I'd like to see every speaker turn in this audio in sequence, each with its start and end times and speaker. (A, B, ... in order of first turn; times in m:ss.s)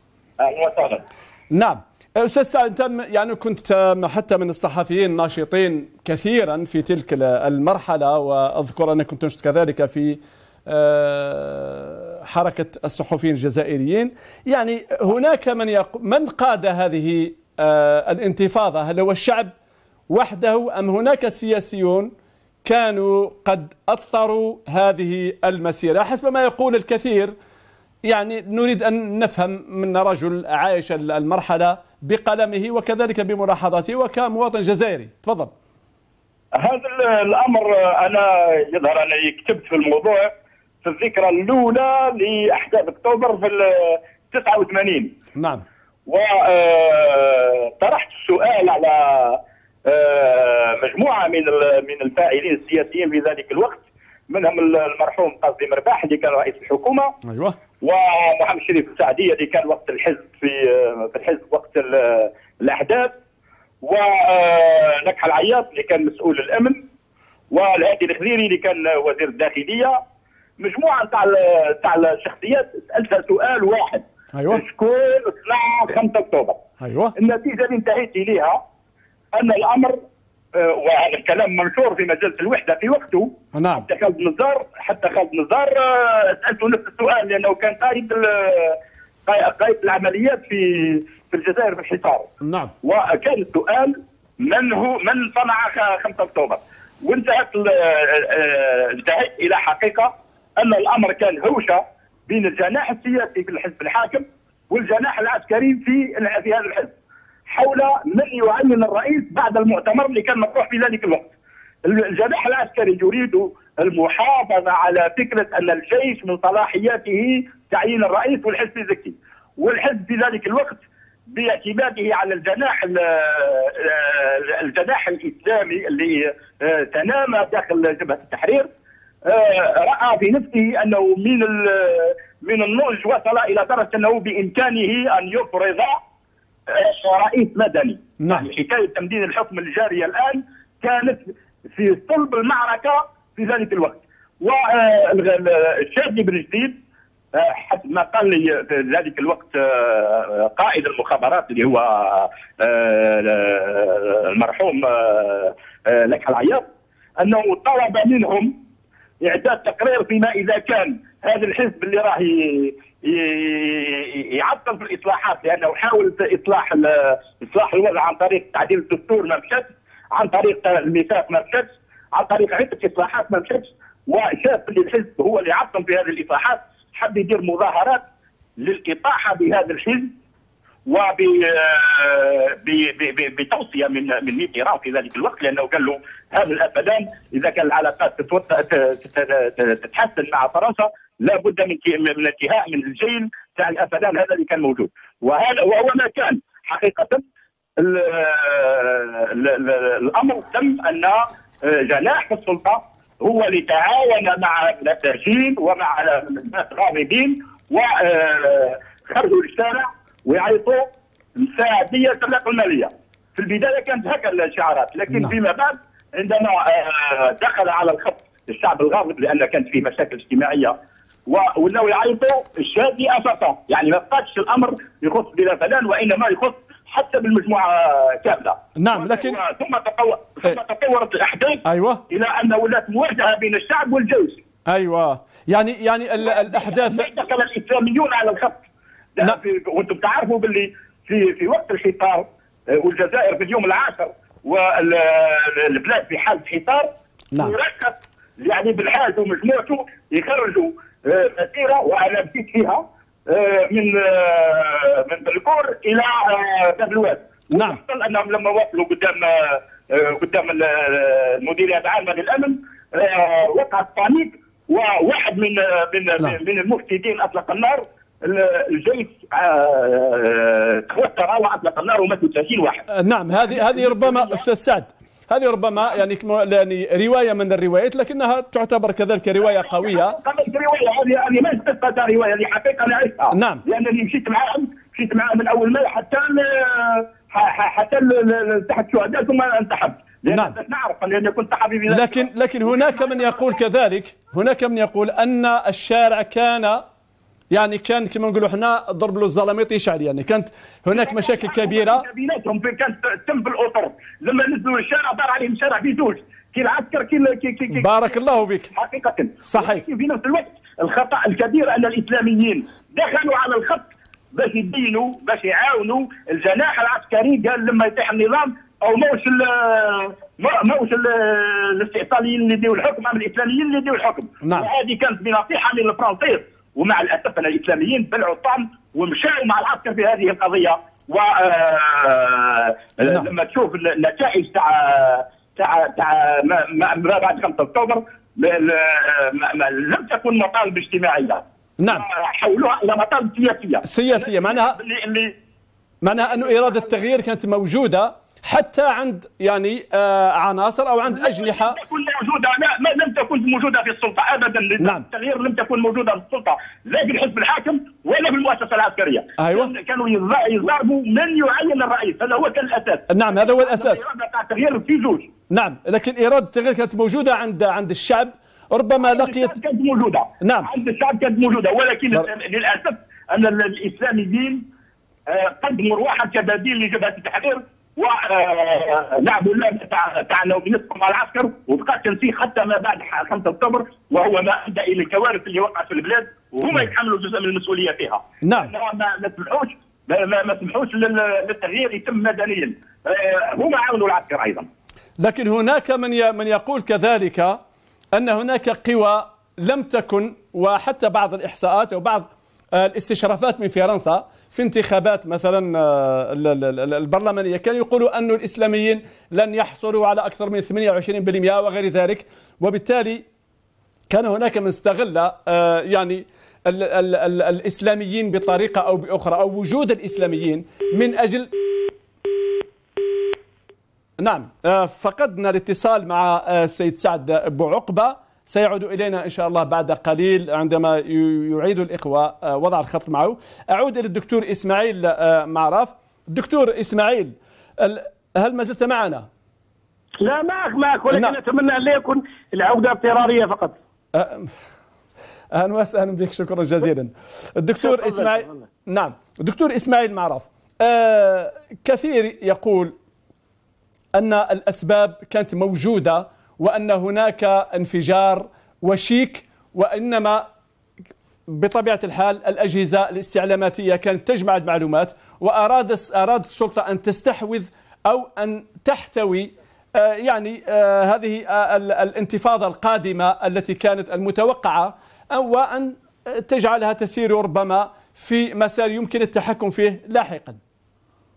0:00.4-0:01.0 A
0:01.5-0:19.5 B
0:20.1-0:22.1 B
0:22.6-0:27.3 B
0:28.0-0:35.5 B
0:36.6-0:40.3 A
0:40.8-0:45.1 A
0:45.3-0:45.6 B
0:46.1-0:57.1 A
0:57.3-0:57.6 B
0:57.8-1:03.1 A
1:03.8-1:06.8 A
1:07.5-1:10.0 A
1:10.6-1:16.6 A
1:14.3-1:14.6 B
1:16.8-1:17.1 B
1:17.2-1:18.6 A
1:19.3-1:20.0 A
1:20.5-1:32.3 A
1:23.5-1:23.8 B
1:32.4-1:32.7 B
1:32.8-1:46.9 A
1:47.5-1:51.3 A
1:51.8-2:08.7 A
2:09.2-2:16.0 A
2:16.7-2:26.8 A
2:18.2-2:18.4 B
2:27.3-2:36.6 A
2:37.2-2:38.5 A
2:39.2-2:58.0 A
2:58.6-3:00.1 A
3:00.8-3:17.2 A
3:17.8-3:40.7 A
3:41.3-3:54.4 A
3:48.8-3:49.4 B
3:51.6-3:52.0 B
3:54.7-3:57.1 B
3:56.2-3:58.6 A
3:59.2-4:32.8 A
4:17.5-4:17.8 B
4:32.9-4:40.2 B
4:33.7-4:34.4 A
4:39.6-4:52.2 A
4:43.3-4:43.6 B
4:50.3-4:50.6 B
4:51.9-4:56.8 B
4:57.5-5:02.0 B
5:00.9-5:08.1 A
5:07.7-5:08.7 B
5:08.7-5:45.3 A
5:09.4-5:09.8 B
5:24.4-5:24.7 B
5:41.8-5:42.0 B
5:43.8-5:44.8 B
5:46.0-5:51.8 B
5:51.1-6:05.3 A
5:54.8-5:55.0 B
5:59.4-5:59.7 B
6:03.1-6:04.0 B
6:05.5-6:09.5 B
6:09.1-6:14.6 A
6:10.4-6:10.7 B
6:15.3-6:34.7 A
6:28.4-6:28.7 B
6:35.2-6:37.6 B
6:38.1-6:53.2 B
6:54.1-7:01.5 B
7:04.2-7:19.2 B
7:20.2-7:23.7 C
7:24.1-7:24.5 B
7:25.5-7:32.9 B
7:27.8-7:28.6 C
7:34.1-7:40.4 B
7:41.5-8:00.6 B